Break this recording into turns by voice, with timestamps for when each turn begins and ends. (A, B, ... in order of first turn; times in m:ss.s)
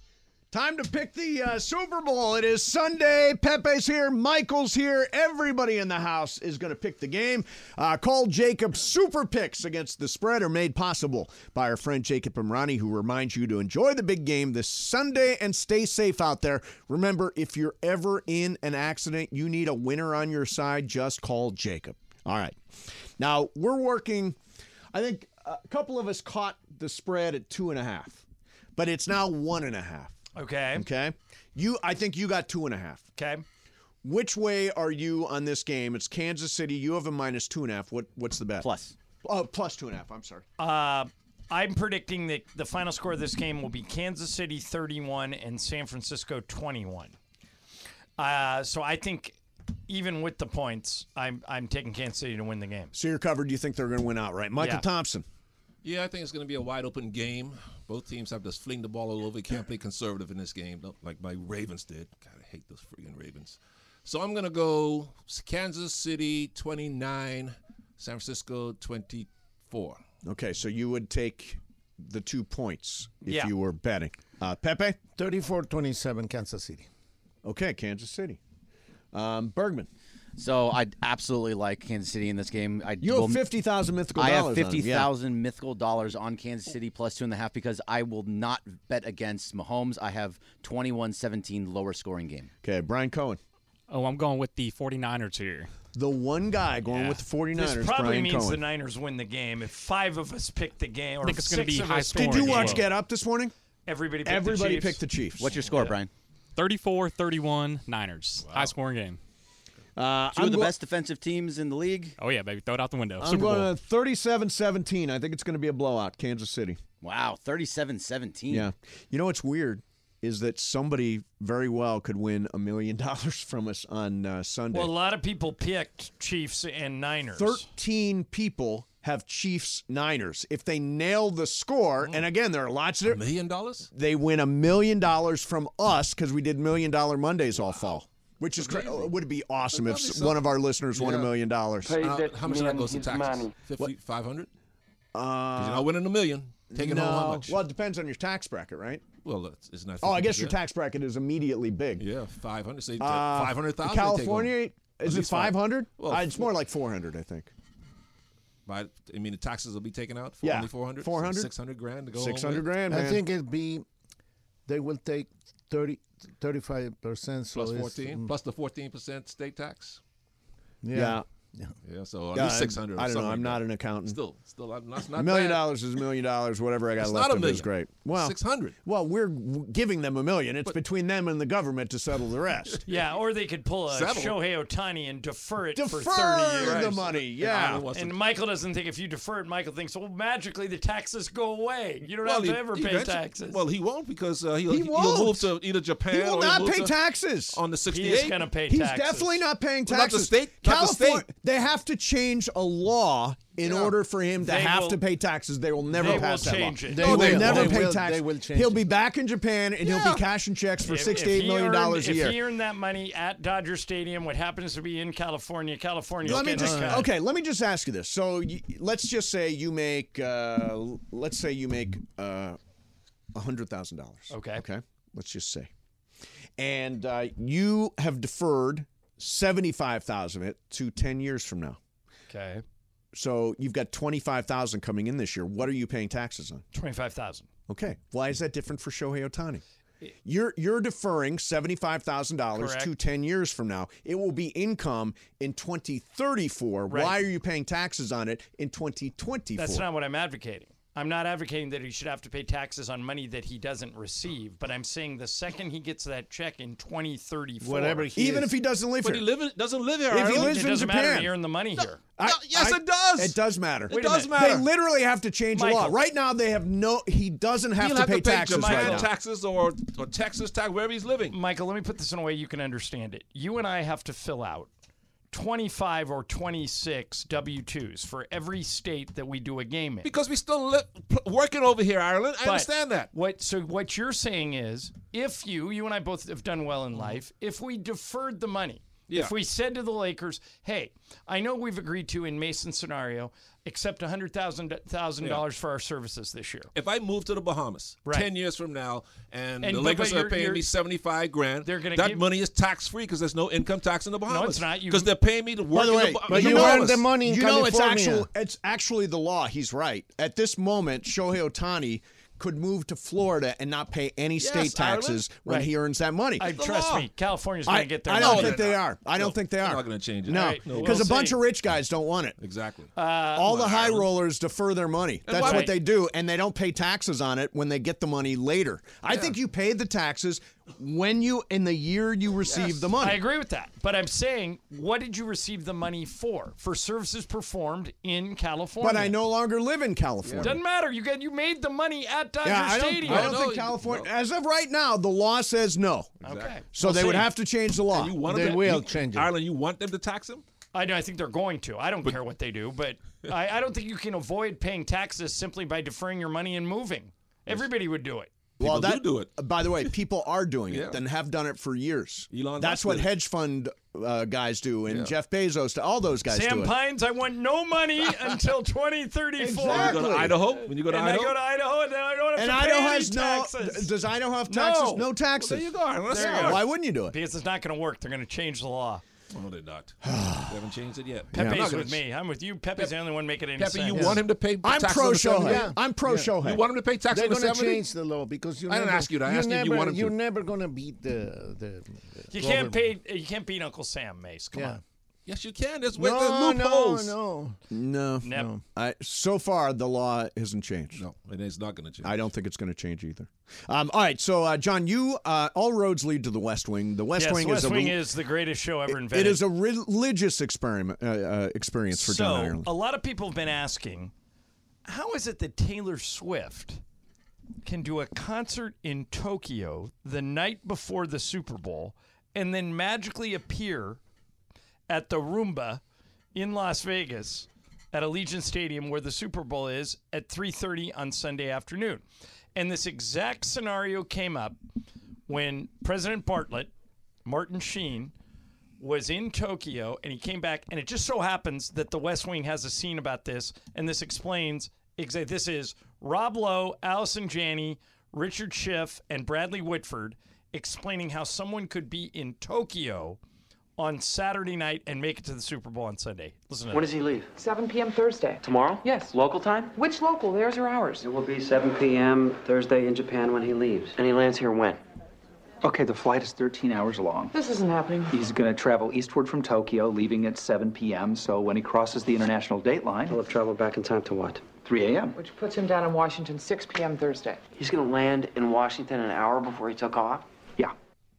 0:00.5-0:22.6 A
0:23.2-0:24.4 A
0:24.9-0:28.2 A
0:28.8-0:30.2 A
0:30.4-0:30.8 B
0:30.7-0:33.0 A
0:33.2-0:33.4 B
0:34.0-0:38.7 A
0:38.6-0:39.0 C
0:39.2-0:40.4 A
0:40.6-0:47.1 B
0:48.2-0:49.4 B
0:49.9-0:52.9 B
0:52.9-0:55.2 A
0:54.6-0:54.8 B
0:55.8-1:10.0 D
1:10.2-1:15.0 A
1:13.3-1:13.5 B
1:15.2-1:16.9 E
1:17.4-1:18.4 A
1:19.1-1:19.9 A
1:20.4-1:23.4 C
1:23.0-1:25.1 A
1:24.2-1:32.5 C
1:32.6-1:33.4 A
1:33.9-1:35.7 F
1:35.9-1:38.6 A
1:36.9-1:42.9 B
1:41.2-1:42.9 F
1:42.2-1:43.5 A
1:43.9-1:45.0 B
1:44.2-1:45.6 A
1:45.4-1:46.1 C
1:46.6-1:49.2 F
1:50.0-1:50.7 A
1:50.3-1:52.2 C
1:52.2-1:53.7 F
1:53.2-1:56.8 A
1:57.0-1:58.7 C
1:58.5-2:04.9 A
2:04.7-2:07.7 B
2:07.4-2:13.2 A
2:13.1-2:13.9 D
2:13.9-2:22.1 A
2:18.7-2:19.1 D
2:19.7-2:20.4 D
2:22.0-2:24.5 D
2:25.1-2:25.9 A
2:25.6-2:27.6 D
2:26.7-2:29.1 A
2:29.2-2:30.6 D
2:30.0-2:32.0 A
2:32.0-2:36.5 D
2:33.0-2:37.5 A
2:38.7-2:42.7 D
2:40.4-2:41.5 A
2:42.2-2:43.2 A
2:42.9-2:43.8 E
2:44.7-2:48.3 E
2:47.5-2:50.0 D
2:50.8-2:51.7 E
2:50.9-2:51.2 A
2:51.8-2:55.8 D
2:52.3-2:54.2 A
2:55.2-3:02.8 A
2:57.0-2:58.8 D
3:02.9-3:13.6 B
3:03.9-3:04.4 D
3:05.8-3:07.9 A
3:06.6-3:08.2 D
3:12.2-3:17.0 D
3:14.7-3:15.5 A
3:16.1-3:17.6 A
3:17.5-3:18.4 D
3:17.9-3:19.4 B
3:18.7-3:32.4 A
3:19.9-3:21.3 D
3:23.6-3:23.9 D
3:24.4-3:25.0 B
3:25.9-3:27.7 B
3:26.9-3:28.8 E
3:27.0-3:27.9 D
3:30.8-3:37.1 B
3:36.2-3:42.6 A
3:36.4-3:37.0 E
3:43.3-3:45.7 A
3:44.3-3:44.6 B
3:46.6-3:51.8 A
3:52.3-3:52.6 B
3:53.1-3:56.6 A
3:56.7-3:57.5 B
3:57.7-3:59.6 A
4:00.2-4:09.8 A
4:02.6-4:02.9 B
4:06.9-4:07.2 B
4:09.6-4:18.1 B
4:17.6-4:18.5 E
4:18.2-4:19.3 A
4:19.0-4:20.6 D
4:20.1-4:21.3 A
4:20.3-4:22.0 B
4:22.2-4:29.1 A
4:22.2-4:24.7 D
4:23.9-4:24.3 B
4:25.5-4:26.0 B
4:27.8-4:31.4 D
4:28.5-4:29.1 B
4:31.3-4:34.7 B
4:35.3-4:40.1 B
4:40.0-4:43.1 D
4:42.4-4:56.7 B
4:56.7-5:07.0 D
4:59.6-5:00.6 B
5:01.6-5:02.2 B
5:04.3-5:05.1 B
5:05.7-5:16.5 A
5:06.3-5:08.3 E
5:14.4-5:15.2 D
5:15.4-5:15.7 B
5:16.4-5:18.6 B
5:16.4-5:17.1 D
5:17.7-5:22.4 A
5:18.2-5:21.1 D
5:20.3-5:21.4 B
5:22.4-5:22.9 D
5:23.0-5:23.5 B
5:23.4-5:33.2 A
5:23.4-5:24.1 D
5:25.3-5:25.8 D
5:25.3-5:25.8 B
5:29.1-5:29.4 D
5:32.5-5:32.8 D
5:33.0-5:39.2 B
5:38.8-5:40.6 A
5:40.2-5:40.5 D
5:40.4-5:43.4 B
5:42.4-5:46.1 A
5:43.1-5:44.1 D
5:46.2-5:46.6 D
5:46.2-5:47.3 B
5:46.7-5:48.2 A
5:47.9-5:50.4 D
5:48.2-5:49.3 E
5:50.7-5:58.3 B
5:58.6-6:06.7 A
5:58.6-5:59.3 D
6:00.7-6:01.0 D
6:02.3-6:03.1 D
6:04.9-6:05.1 D
6:06.3-6:13.9 B
6:09.4-6:10.4 A
6:09.6-6:11.4 D
6:12.4-6:17.2 A
6:14.5-6:15.1 B
6:15.4-6:16.6 D
6:16.1-6:19.0 B
6:19.3-6:22.0 D
6:20.0-6:20.6 A
6:21.3-6:21.7 A
6:21.3-6:24.2 B
6:23.6-6:25.7 D
6:23.9-6:24.2 E
6:24.6-6:26.6 A
6:25.4-6:26.4 E
6:26.4-6:27.8 D
6:27.1-6:32.9 E
6:28.7-6:30.2 D
6:32.3-6:34.8 B
6:34.5-6:34.8 E
6:35.3-6:37.2 D
6:36.0-6:37.6 E
6:37.7-6:41.0 A
6:38.2-6:38.5 B
6:38.3-6:38.6 E
6:40.9-6:42.2 D
6:42.0-6:48.0 A
6:47.2-6:49.4 B
6:48.9-6:52.7 A
6:51.9-6:54.1 B
6:54.8-6:56.8 B
6:57.6-7:04.0 B
7:04.9-7:05.8 B
7:06.4-7:12.0 B
7:12.6-7:14.6 B
7:15.3-7:16.7 B
7:17.3-7:18.1 B
7:18.8-7:33.2 B
7:33.8-7:36.9 B
7:36.7-7:37.3 G
7:37.4-7:39.2 H
7:38.4-7:39.7 G
7:39.8-7:41.1 H
7:41.0-7:44.8 G
7:45.6-7:47.3 I
7:47.3-7:48.2 H
7:48.1-7:53.2 I
7:53.1-7:54.4 G
7:54.6-7:55.1 I
7:55.2-7:57.4 H
7:57.6-8:00.2 G